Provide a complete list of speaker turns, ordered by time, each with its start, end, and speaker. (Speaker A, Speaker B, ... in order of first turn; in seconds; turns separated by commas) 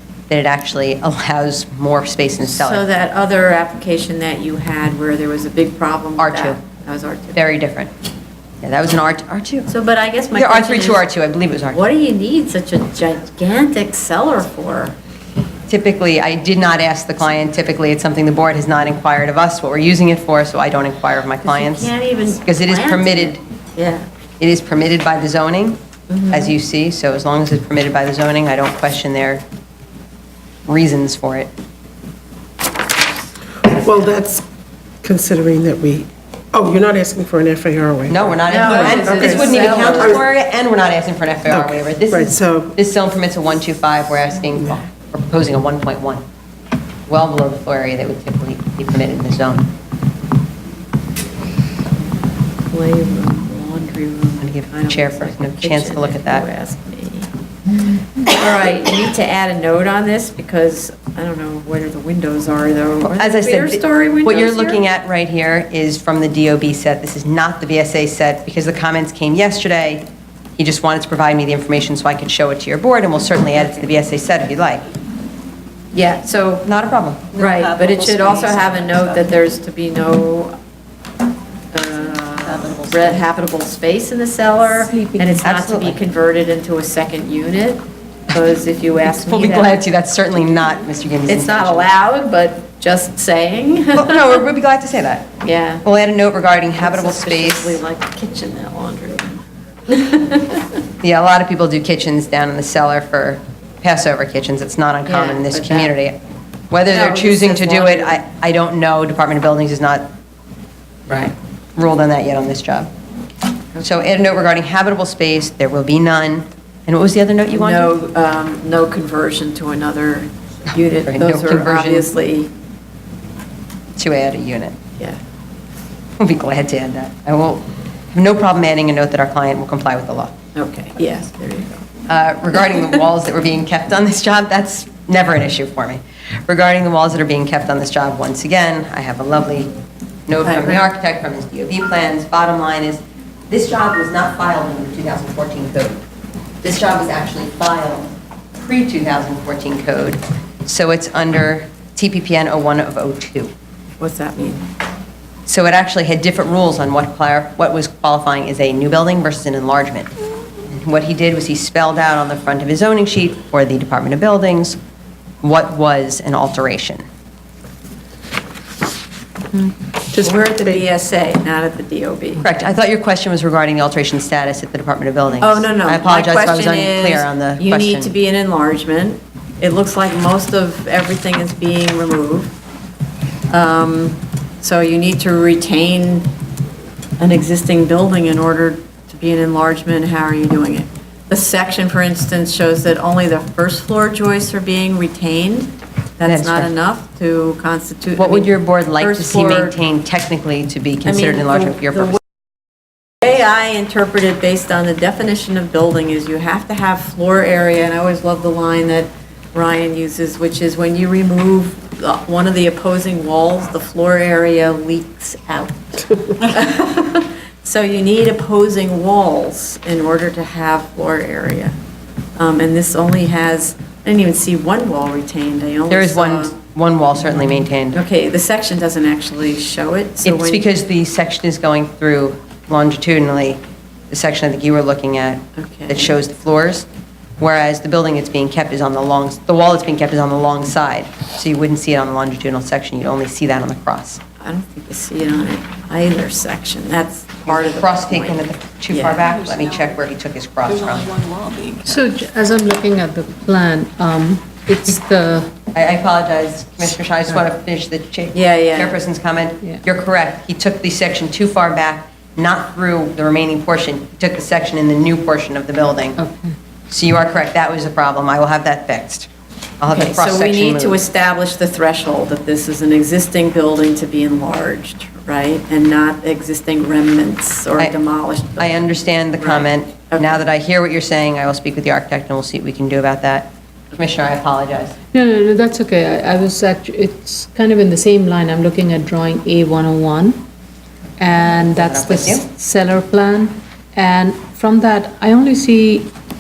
Speaker A: 0.3-2.8, Speaker B: 2.5-7.4, Speaker A: 6.2-6.6, Speaker A: 7.4-7.9, Speaker A: 8.6-9.7, Speaker B: 9.7-11.1, Speaker A: 10.3-11.8, Speaker B: 11.7-15.0, Speaker A: 15.7-21.9, Speaker B: 21.4-24.1, Speaker A: 22.4-23.4, Speaker A: 24.4-25.8, Speaker B: 26.1-26.5, Speaker A: 26.3-29.4, Speaker A: 30.7-31.5, Speaker C: 33.6-34.4, Speaker C: 35.0-40.2, Speaker A: 38.1-46.2, Speaker B: 38.5-40.2, Speaker C: 41.5-42.7, Speaker A: 47.1-49.7, Speaker B: 52.7-57.3, Speaker A: 54.4-56.5, Speaker B: 58.2-64.8, Speaker A: 63.0-70.0, Speaker A: 70.6-74.8, Speaker B: 75.9-76.7, Speaker A: 76.6-79.3, Speaker B: 77.4-80.5, Speaker B: 81.7-89.9, Speaker A: 82.4-83.2, Speaker D: 85.0-85.4, Speaker A: 85.4-86.0, Speaker A: 89.1-91.9, Speaker B: 91.3-94.4, Speaker A: 94.0-95.3, Speaker B: 95.4-95.8, Speaker A: 95.8-97.8, Speaker B: 96.8-100.8, Speaker A: 101.0-106.2, Speaker B: 105.1-105.9, Speaker A: 106.7-110.1, Speaker B: 106.9-108.2, Speaker A: 111.1-112.9, Speaker A: 113.8-117.9, Speaker B: 117.5-122.5, Speaker A: 121.0-122.1, Speaker A: 124.0-124.8, Speaker A: 126.2-130.3, Speaker B: 130.6-131.8, Speaker A: 132.1-139.7, Speaker A: 140.3-146.0, Speaker B: 140.4-140.9, Speaker A: 146.6-153.5, Speaker B: 154.0-154.7, Speaker A: 155.5-160.1, Speaker A: 160.7-164.8, Speaker A: 165.4-167.0, Speaker C: 170.2-170.8, Speaker B: 170.2-172.7, Speaker A: 172.4-178.2, Speaker B: 175.4-182.5, Speaker B: 183.5-186.3, Speaker B: 187.2-199.8, Speaker A: 196.3-196.7, Speaker A: 198.2-202.2, Speaker B: 201.1-201.9, Speaker B: 203.2-221.8, Speaker B: 222.4-226.6, Speaker A: 225.9-228.0, Speaker B: 227.3-230.7, Speaker A: 230.2-236.9, Speaker B: 235.6-236.1, Speaker A: 237.4-244.2, Speaker B: 244.4-249.2, Speaker A: 247.5-251.2, Speaker D: 251.0-255.6, Speaker A: 255.7-266.2, Speaker B: 258.3-259.0, Speaker D: 266.2-266.6, Speaker A: 266.9-269.3, Speaker A: 269.8-271.0, Speaker B: 269.9-280.4, Speaker A: 278.6-285.0, Speaker D: 285.1-290.4, Speaker D: 291.2-296.1, Speaker A: 291.7-292.5